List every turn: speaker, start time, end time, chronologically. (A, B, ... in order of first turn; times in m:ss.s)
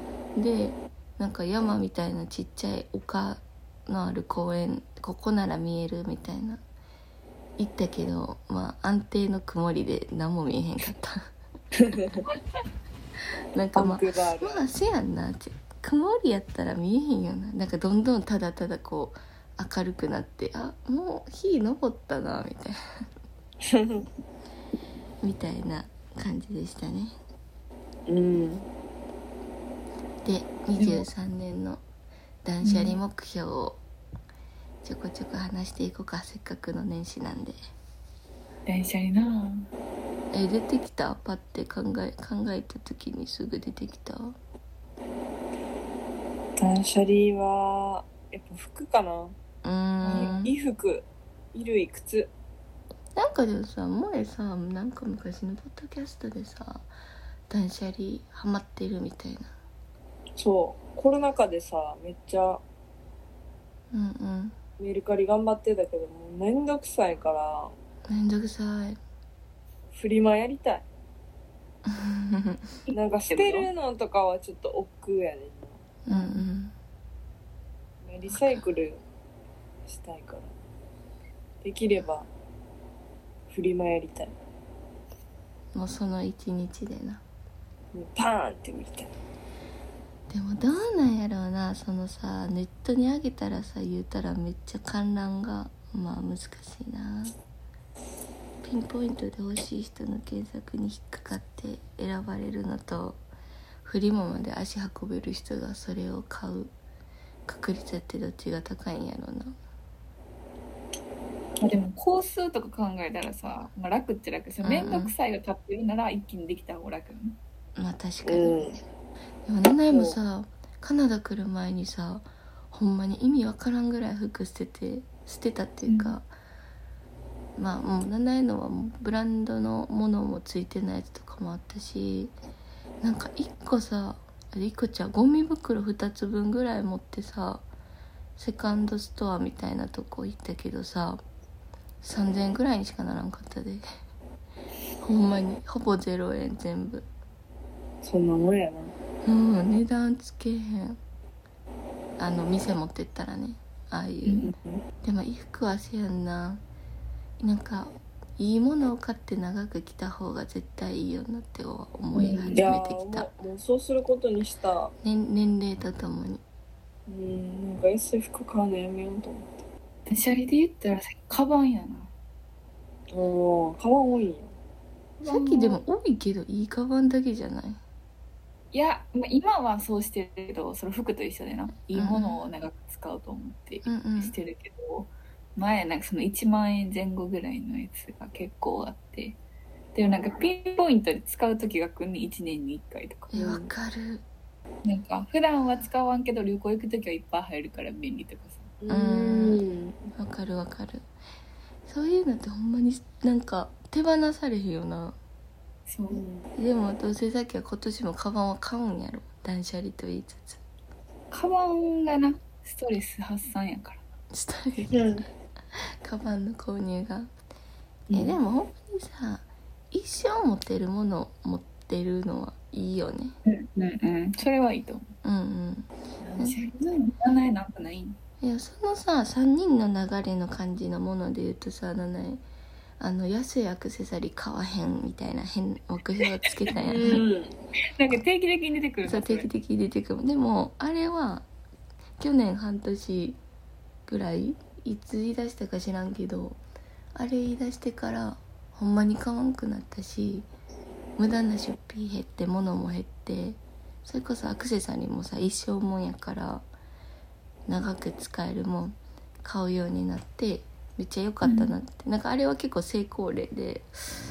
0:00.3-0:06.6 A
0:07.6-0:11.2 A
0:11.8-0:12.2 B
0:13.5-0:22.7 A
0:13.8-0:14.6 B
0:23.6-0:24.0 B
0:25.2-0:27.1 A
0:28.1-0:28.7 B
0:30.2-0:31.8 A
0:30.8-0:31.0 C
0:32.4-0:33.8 A
0:32.6-0:33.0 C
0:34.8-0:37.6 A
0:38.7-0:39.7 C
0:40.3-0:44.4 A
0:46.6-0:49.4 B
0:49.6-0:50.5 A
0:50.0-0:50.3 C
0:50.1-0:52.3 B
0:53.2-0:56.9 A
0:57.5-0:59.5 A
1:00.4-1:02.6 B
1:03.9-1:04.6 A
1:04.8-1:07.7 B
1:08.1-1:09.0 A
1:09.9-1:10.8 B
1:11.8-1:12.8 A
1:12.9-1:15.8 B
1:13.2-1:13.7 C
1:16.0-1:16.7 A
1:16.1-1:16.4 C
1:18.0-1:19.0 B
1:18.3-1:18.6 A
1:19.8-1:20.5 B
1:21.6-1:22.3 B
1:23.5-1:24.3 B
1:25.7-1:27.2 A
1:27.9-1:29.1 B
1:30.3-1:37.3 A
1:38.6-1:43.2 A
1:43.8-1:46.7 A
1:47.4-1:49.5 A
1:51.6-1:57.4 C
1:54.6-1:55.1 A
1:57.8-1:58.8 A
1:58.2-1:58.8 B
1:59.4-2:06.3 A
1:59.9-2:00.2 B
2:05.8-2:06.2 C
2:07.6-2:12.3 A
2:13.0-2:17.6 A
2:18.4-2:21.2 A
2:22.0-2:23.8 A
2:25.0-2:27.1 A
2:28.0-2:28.9 B
2:29.2-2:31.0 A
2:32.2-2:34.5 A
2:34.2-2:34.6 C
2:35.0-2:36.6 A
2:37.4-2:43.3 A
2:42.1-2:42.6 C
2:42.4-2:44.9 B
2:45.0-2:46.4 A
2:47.1-2:49.6 B
2:50.1-2:52.1 C
2:53.1-2:54.5 B
2:55.2-2:55.8 C
2:55.3-2:57.8 A
2:58.7-3:09.4 C
3:01.9-3:02.4 A
3:03.8-3:04.3 A
3:09.9-3:13.4 C
3:13.3-3:14.2 A
3:13.4-3:13.7 B
3:14.8-3:18.7 C
3:18.8-3:20.1 B
3:18.9-3:19.6 A
3:20.1-3:21.0 A
3:21.8-3:25.2 A
3:25.9-3:26.2 C
3:26.1-3:26.5 B
3:26.6-3:30.6 A
3:31.3-3:34.0 C
3:34.3-3:34.9 A
3:34.9-3:35.2 B
3:35.7-3:37.3 A
3:38.1-3:38.4 B
3:38.1-3:43.3 A
3:43.4-3:45.0 C
3:45.2-3:46.6 A
3:46.2-3:48.2 C
3:48.4-3:52.4 A
3:53.0-3:57.2 A
3:56.8-3:57.6 B
3:58.0-3:59.5 C
3:59.0-4:01.5 A
4:02.2-4:03.4 A
4:04.1-4:06.6 A
4:07.1-4:10.5 A
4:11.2-4:16.6 A
4:17.7-4:23.9 A
4:21.4-4:21.7 C